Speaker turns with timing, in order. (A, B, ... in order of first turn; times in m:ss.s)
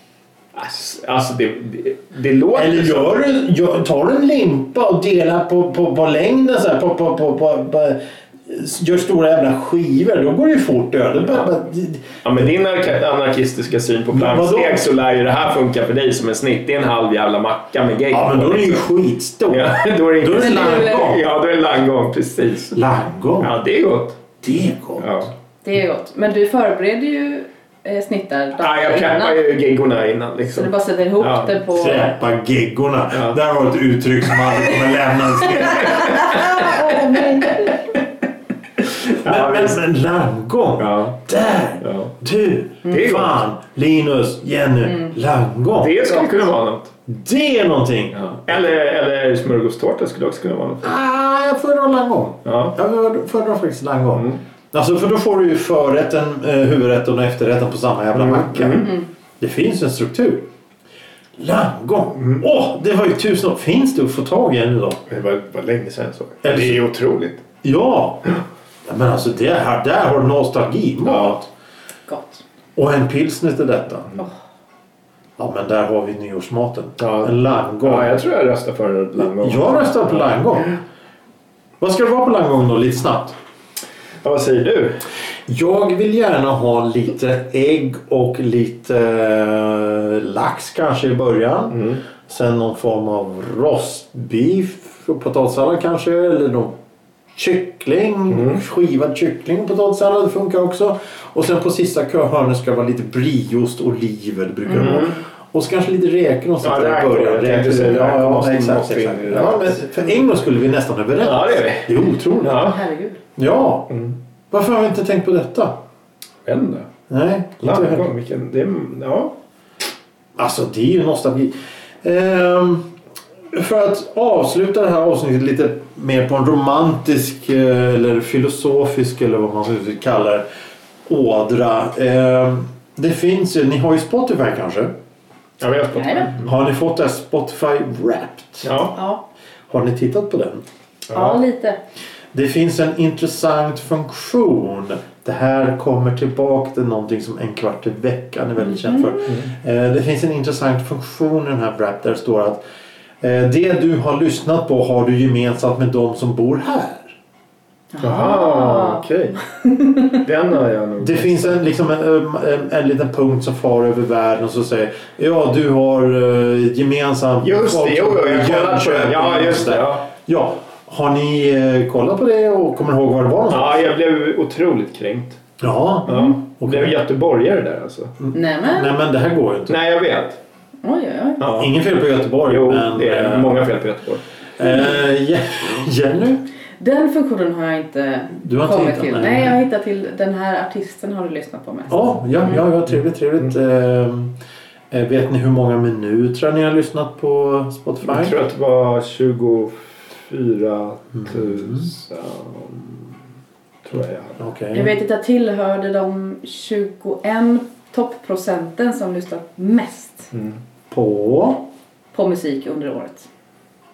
0:00.5-0:03.2 A
0:02.5-0:12.5 B
0:12.2-0:18.9 A
0:14.1-0:14.9 B
0:18.1-0:21.2 B
0:19.5-0:22.8 A
0:20.4-0:21.0 C
0:22.7-0:23.5 B
0:23.4-0:24.2 A
0:24.4-0:25.1 B
0:25.0-0:25.3 A
0:25.6-0:29.4 C
0:28.6-0:31.6 A
0:30.5-0:32.1 C
0:31.7-0:36.7 B
0:33.1-0:33.4 A
0:35.7-0:36.4 A
0:35.9-0:37.8 C
0:39.0-0:39.8 A
0:39.2-0:46.0 B
0:40.8-0:41.2 A
0:41.8-0:42.1 A
0:42.8-0:43.4 A
0:45.8-0:46.9 A
0:47.1-0:48.6 B
0:48.1-0:50.9 A
0:50.8-1:00.5 B
0:52.4-0:52.7 A
0:54.1-0:54.4 A
0:58.1-0:59.0 A
1:01.4-1:05.0 B
1:02.2-1:02.4 A
1:05.1-1:07.4 A
1:06.4-1:06.8 B
1:07.6-1:08.2 B
1:08.8-1:11.5 B
1:11.0-1:11.4 A
1:12.1-1:12.4 C
1:12.8-1:14.1 B
1:15.4-1:18.2 B
1:17.0-1:20.8 A
1:19.2-1:20.7 B
1:21.8-1:23.4 B
1:24.2-1:25.0 A
1:25.5-1:36.7 B
1:31.7-1:32.0 A
1:37.3-1:52.7 B
1:38.3-1:38.6 A
1:44.7-1:45.2 A
1:46.6-1:50.1 A
1:51.2-1:51.9 A
1:52.4-1:52.8 A
1:52.6-1:53.2 C
1:53.4-1:53.9 B
1:53.9-1:54.2 A
1:54.5-1:55.8 B
1:56.4-1:56.9 A
1:57.1-1:58.1 B
1:57.6-1:59.3 A
2:00.4-2:02.9 B
2:03.5-2:10.4 B
2:11.1-2:14.9 B
2:15.6-2:16.5 A
2:16.0-2:16.3 C
2:16.4-2:18.7 B
2:18.6-2:19.0 A
2:18.9-2:19.2 C
2:19.7-2:20.6 B
2:21.1-2:21.4 A
2:21.1-2:21.8 C
2:22.3-2:32.6 B
2:28.7-2:29.1 C
2:29.2-2:29.5 A
2:33.2-2:37.1 B
2:37.9-2:40.2 C
2:38.0-2:39.4 A
2:40.1-2:41.6 A
2:41.0-2:53.8 B
2:47.4-2:50.1 A
2:53.5-2:55.4 A
2:55.6-2:56.9 B
2:56.0-2:58.1 A
2:58.2-2:59.8 B
2:58.3-2:58.9 C
2:59.7-3:00.4 A
3:00.8-3:01.4 C
3:01.4-3:01.7 A
3:01.5-3:03.6 B
3:02.4-3:04.2 A
3:04.6-3:06.4 B
3:06.8-3:12.2 C
3:08.3-3:09.6 B
3:11.9-3:14.4 B
3:14.9-3:18.4 B
3:18.0-3:23.1 A
3:21.2-3:21.9 B
3:23.8-3:24.4 A
3:24.4-3:24.9 B
3:24.7-3:30.3 C
3:30.3-3:30.6 A
3:30.9-3:31.6 B
3:32.1-3:33.3 C